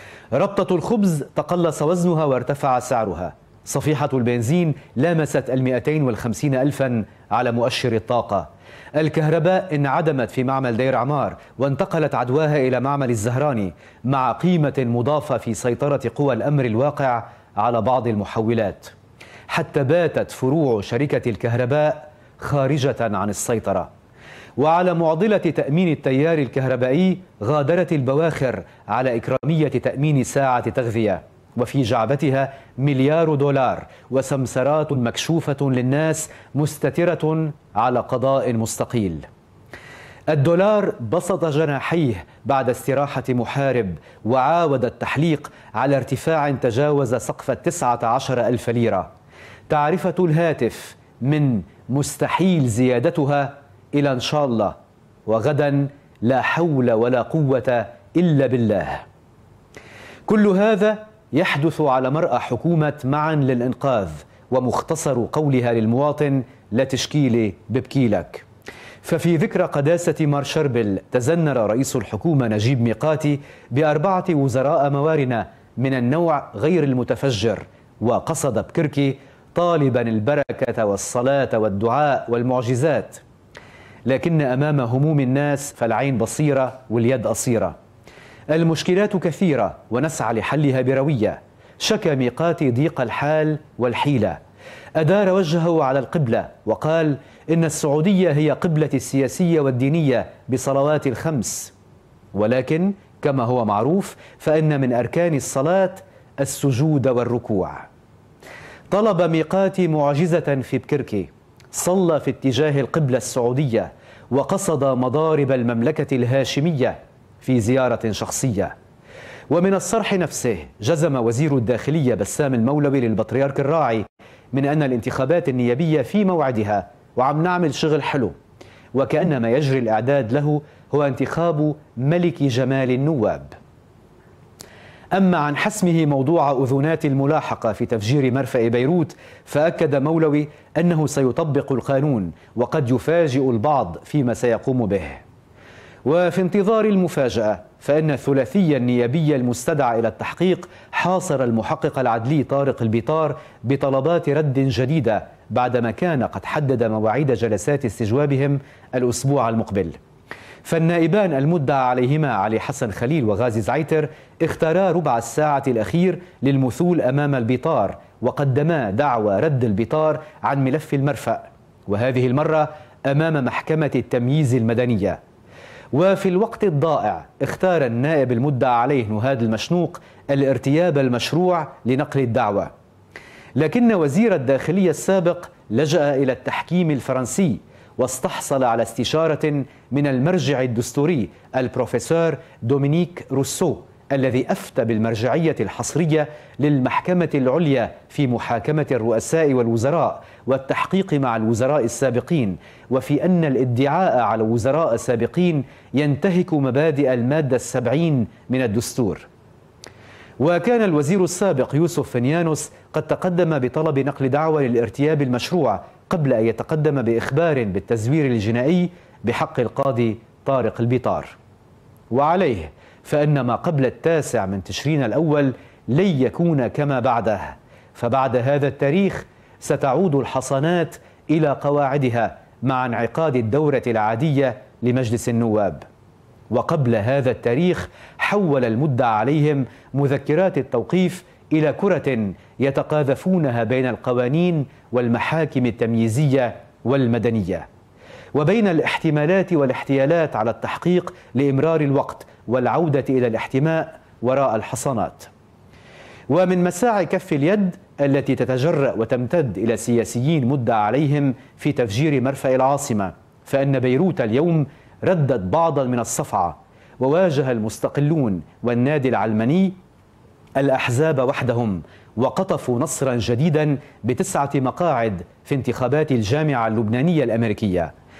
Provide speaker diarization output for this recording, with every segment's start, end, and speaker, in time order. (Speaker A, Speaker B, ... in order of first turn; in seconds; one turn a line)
Speaker A: 0.3-18.9
Speaker A: 19.5-23.9
Speaker A: 24.6-39.2
Speaker A: 40.3-49.1
Speaker A: 49.7-54.7
Speaker A: 55.3-59.0
Speaker A: 60.3-68.4
Speaker A: 69.0-83.2
Speaker A: 84.0-87.8
Speaker A: 88.5-94.4
Speaker A: 95.0-101.7
Speaker A: 102.3-107.8
Speaker A: 108.9-118.7
Speaker A: 119.5-128.3
Speaker A: 128.9-133.6
Speaker A: 135.1-145.2
Speaker A: 146.0-160.0
Speaker A: 160.6-175.2
Speaker A: 175.9-182.7
Speaker A: 183.6-209.2
Speaker A: 210.4-221.3
Speaker A: 222.1-235.8
Speaker A: 236.5-247.7
Speaker A: 248.3-255.3
Speaker A: 256.3-269.8
Speaker A: 270.6-277.9